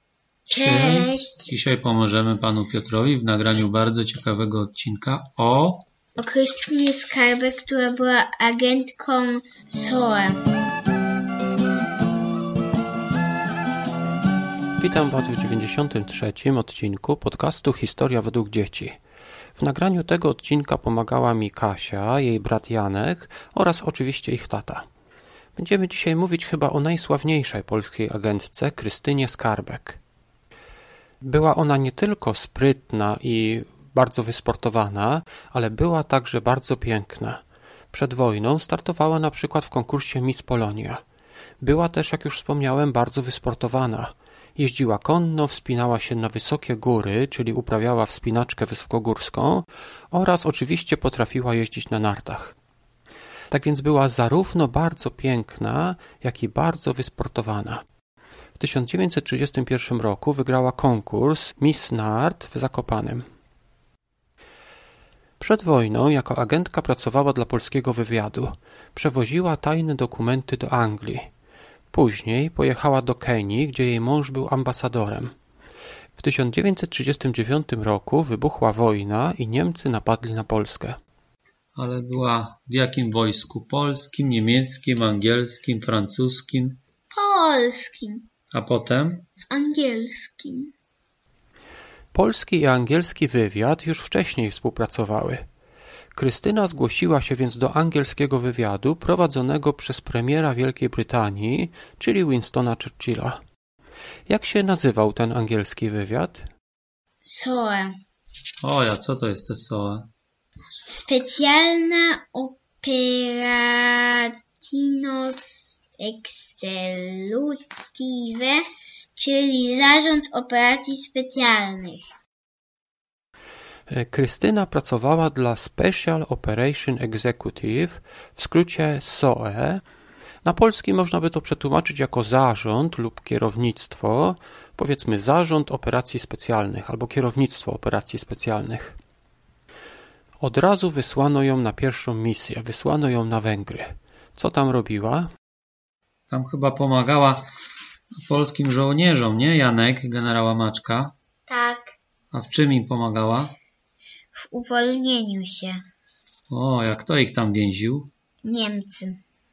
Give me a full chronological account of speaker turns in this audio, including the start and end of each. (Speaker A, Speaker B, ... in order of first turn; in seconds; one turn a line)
Speaker A: 0.5-1.5
Speaker B: 0.5-5.8
Speaker A: 6.2-10.4
Speaker C: 14.8-19.0
Speaker C: 19.6-24.8
Speaker C: 25.6-30.0
Speaker C: 31.2-37.4
Speaker C: 37.9-41.0
Speaker C: 41.6-52.5
Speaker C: 53.5-57.8
Speaker C: 58.6-63.2
Speaker C: 65.4-71.3
Speaker C: 71.9-75.3
Speaker C: 76.2-81.0
Speaker B: 81.7-86.8
Speaker A: 87.1-88.2
Speaker B: 88.5-89.3
Speaker A: 89.5-90.7
Speaker C: 92.1-95.4
Speaker C: 96.1-103.4
Speaker C: 104.3-106.5
Speaker A: 107.2-107.9
Speaker B: 108.6-110.1
Speaker A: 110.8-118.6
Speaker A: 119.2-122.1
Speaker C: 123.9-129.8
Speaker C: 130.4-138.9
Speaker C: 140.4-145.3
Speaker B: 146.3-147.4
Speaker B: 148.2-151.1
Speaker A: 151.5-151.9
Speaker B: 152.3-153.5
Speaker A: 154.3-155.8
Speaker B: 156.5-158.1
Speaker A: 158.4-159.2